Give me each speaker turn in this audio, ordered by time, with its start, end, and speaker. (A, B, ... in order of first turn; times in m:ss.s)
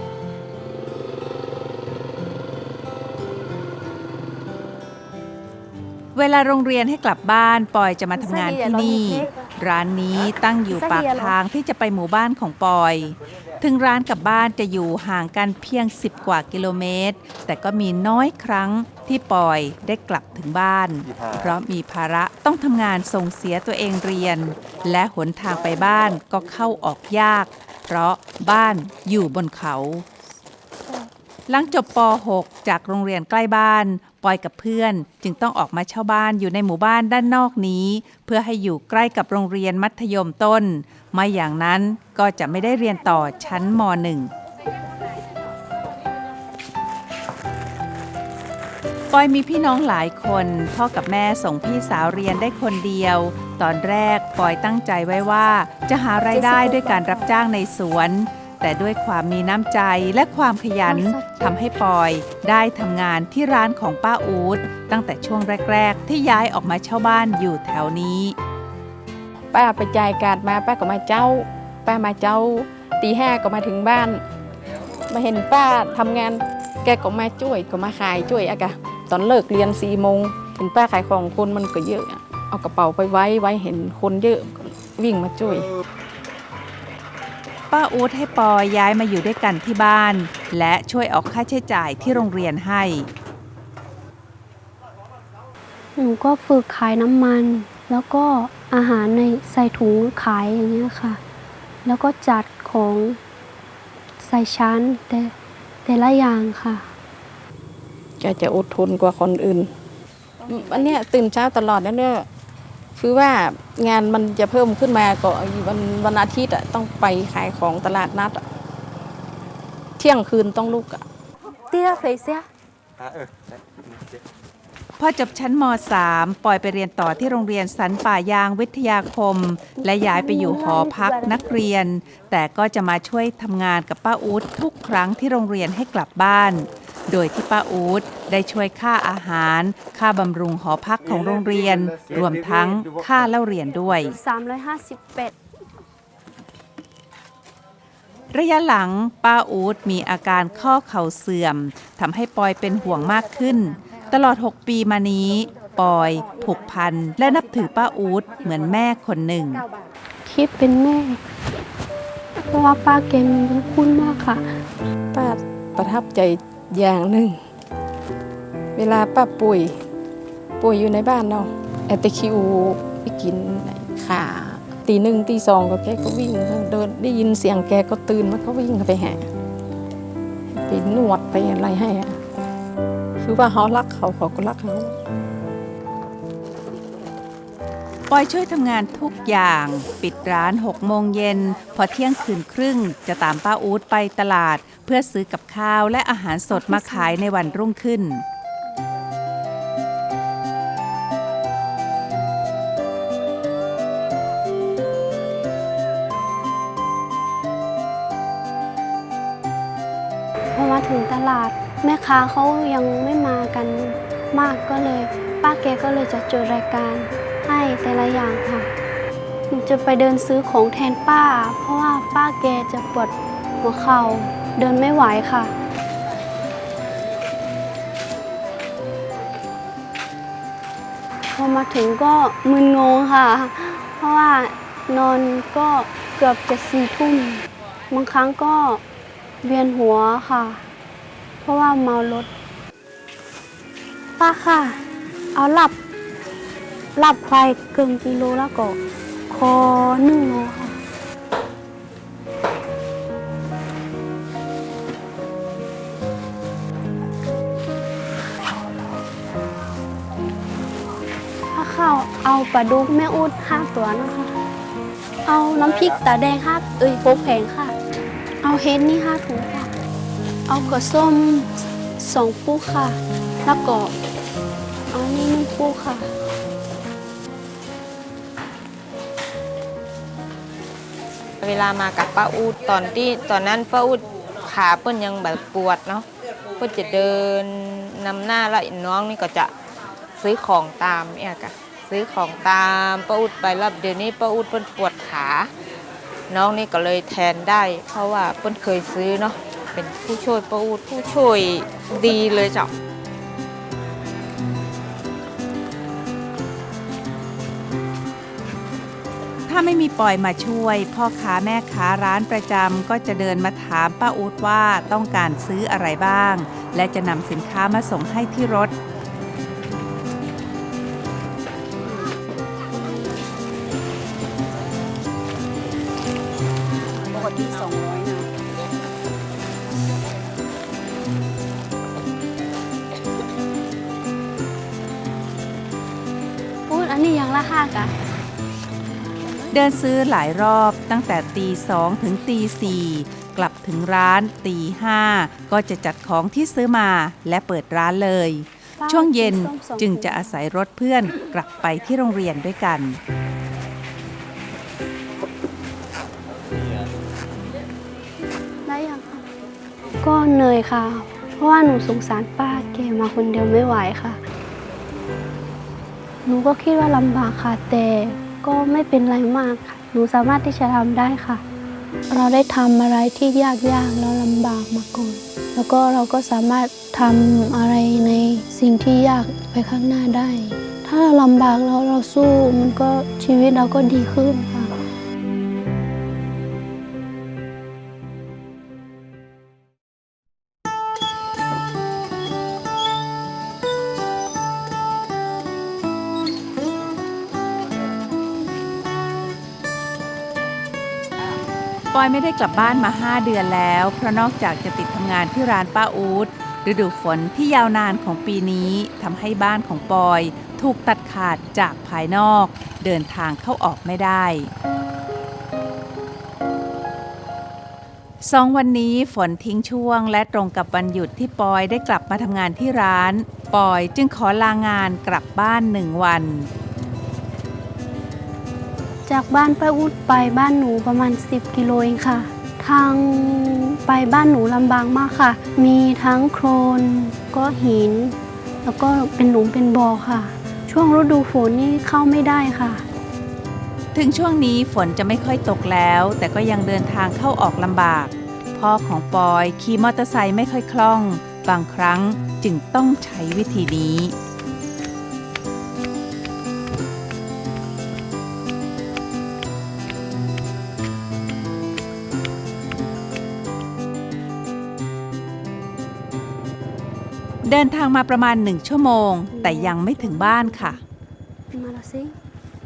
0:06.2-0:30.0 A
0:08.1-0:09.3 B
0:10.7-0:11.4 B
0:31.5-0:44.3 A
0:49.1-1:08.4 A
0:56.2-0:57.3 B
1:00.8-1:01.5 B
1:09.5-1:14.2 C
1:15.1-1:25.7 C
1:27.7-1:33.1 A
1:36.0-1:41.2 B
1:41.8-1:43.2 B
1:44.2-1:45.3 B
1:45.8-1:46.9 B
1:48.2-1:49.7 C
1:50.5-1:52.3 C
1:53.0-1:58.4 C
2:00.0-2:01.0 C
2:01.7-2:02.4 B
2:05.0-2:24.1 A
2:09.8-2:11.5 B
2:24.1-2:25.4 B
2:28.3-2:39.7 A
2:40.2-2:41.2 B
2:42.5-2:44.4 B
2:45.1-2:47.4 C
2:48.8-2:49.7 C
2:50.6-2:59.2 C
3:00.5-3:02.2 C
3:03.2-3:04.9 C
3:08.1-3:18.2 A
3:16.5-3:17.2 B
3:30.6-3:38.7 B
3:39.5-3:45.5 B
3:51.3-3:58.8 B
3:59.4-4:00.6 B
4:01.4-4:02.3 B
4:04.2-4:04.8 B
4:05.4-4:05.8 B
4:07.0-4:08.8 B
4:09.3-4:10.8 B
4:21.5-4:24.3 B
4:25.2-4:27.8 B
4:28.4-4:29.7 B
4:30.5-4:33.9 B
4:34.9-4:36.1 B
4:41.4-4:46.1 D
4:46.6-4:49.5 D
4:50.2-4:55.5 D
4:56.3-5:02.7 D
5:09.5-5:18.7 A
5:27.1-5:28.2 B
5:36.7-5:37.9 B
5:39.5-5:53.0 A
5:48.8-5:50.2 B
5:58.7-5:59.3 B
6:00.0-6:04.2 B
6:06.2-6:11.4 B
6:12.1-6:24.7 B
6:41.9-6:54.5 A
6:58.2-7:06.5 A
7:09.1-7:22.8 B
7:23.9-7:34.1 A
7:47.4-7:50.8 A
7:49.3-7:50.8 B
7:51.5-7:52.1 B